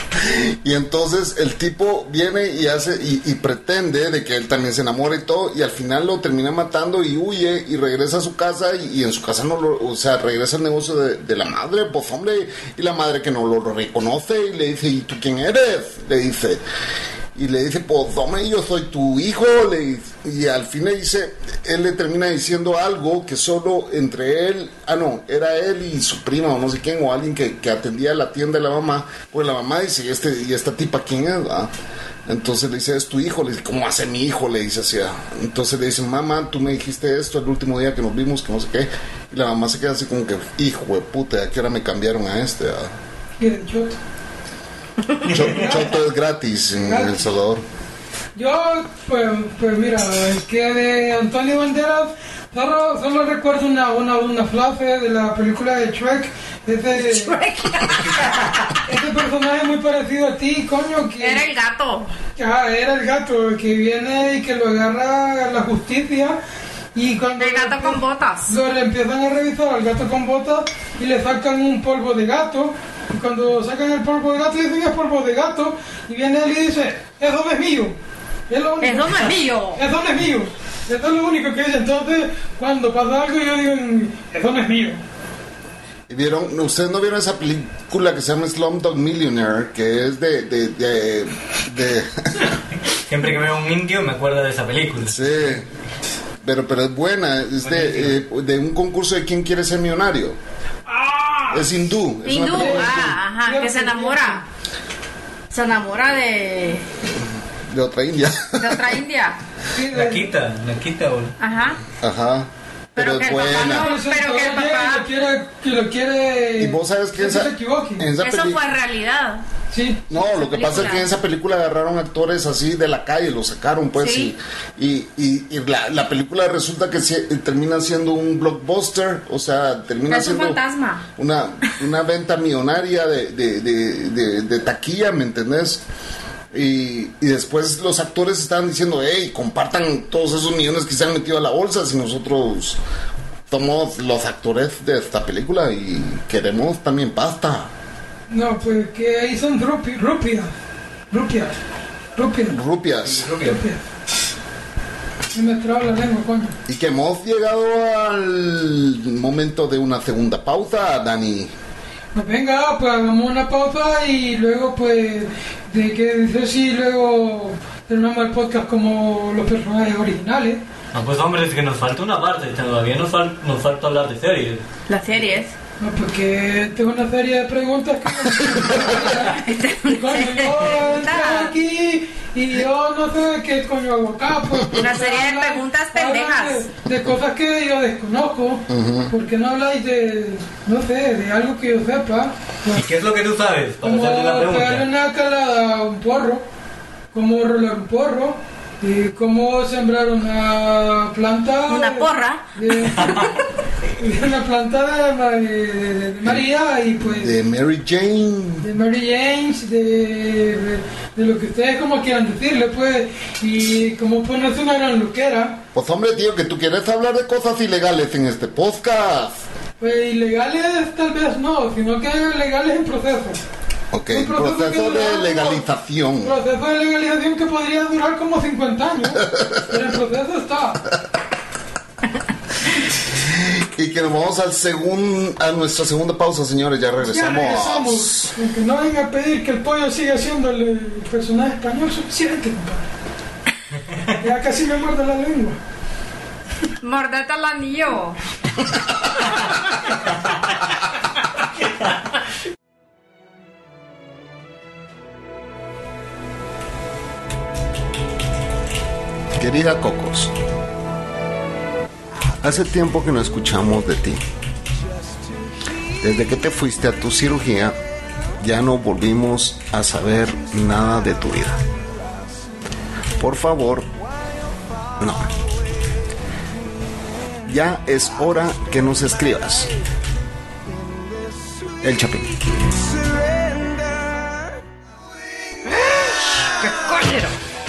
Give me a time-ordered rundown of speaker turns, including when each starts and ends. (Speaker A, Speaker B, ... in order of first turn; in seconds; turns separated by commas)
Speaker A: 0.2-16.6, Speaker A: 17.3-31.7, Speaker A: 32.2-42.9, Speaker B: 43.4-44.0, Speaker A: 45.2-47.6, Speaker B: 45.4-45.9, Speaker B: 46.8-47.2, Speaker B: 48.3-57.4, Speaker C: 57.0-58.7, Speaker B: 58.9-61.5, Speaker C: 61.2-62.1, Speaker B: 62.3-66.4, Speaker B: 66.9-78.0, Speaker C: 67.4-68.5, Speaker B: 78.5-85.0, Speaker C: 78.8-79.8, Speaker A: 86.1-92.4, Speaker D: 93.1-95.2, Speaker A: 95.0-95.7, Speaker A: 96.4-100.4, Speaker D: 97.6-98.2, Speaker B: 100.9-101.7, Speaker A: 101.5-103.2, Speaker C: 102.2-104.4, Speaker B: 102.4-104.4, Speaker C: 105.5-106.9, Speaker A: 107.7-108.8, Speaker C: 108.6-109.4, Speaker B: 109.7-110.3, Speaker D: 109.9-111.3, Speaker C: 111.4-111.8, Speaker A: 112.0-113.9, Speaker C: 113.0-115.0, Speaker B: 113.4-118.1, Speaker A: 116.6-118.6, Speaker C: 118.2-119.4, Speaker B: 119.7-120.1, Speaker A: 120.1-130.6, Speaker C: 120.2-121.1, Speaker C: 124.0-124.3, Speaker C: 130.1-131.0, Speaker A: 131.2-135.8, Speaker A: 136.5-142.8, Speaker A: 143.5-147.7, Speaker B: 148.3-150.5, Speaker B: 151.1-151.5, Speaker B: 152.2-152.6, Speaker A: 152.5-153.3, Speaker D: 153.0-153.6, Speaker B: 153.4-153.8, Speaker B: 155.3-156.6, Speaker A: 156.7-161.5, Speaker B: 162.1-170.6, Speaker D: 170.9-174.6, Speaker C: 174.9-175.5, Speaker B: 175.8-192.8, Speaker C: 179.3-181.5, Speaker C: 184.7-186.7, Speaker A: 188.7-189.1, Speaker D: 192.7-194.9, Speaker B: 193.8-196.4, Speaker B: 197.1-203.2, Speaker C: 201.7-202.5, Speaker D: 202.9-203.2, Speaker B: 204.0-207.4, Speaker A: 207.1-208.7, Speaker B: 208.6-215.6, Speaker A: 215.7-219.4, Speaker B: 219.8-223.4, Speaker A: 223.9-226.4, Speaker B: 224.1-225.6, Speaker B: 226.2-230.8, Speaker A: 229.3-229.6, Speaker A: 233.1-238.3, Speaker B: 237.0-242.8, Speaker B: 244.2-245.6, Speaker C: 246.8-248.2, Speaker A: 259.4-260.3, Speaker A: 262.4-264.2, Speaker A: 266.0-267.8, Speaker A: 268.4-271.6, Speaker A: 273.2-273.9, Speaker A: 275.0-275.4, Speaker A: 277.4-279.7, Speaker A: 281.8-282.4, Speaker C: 285.7-287.4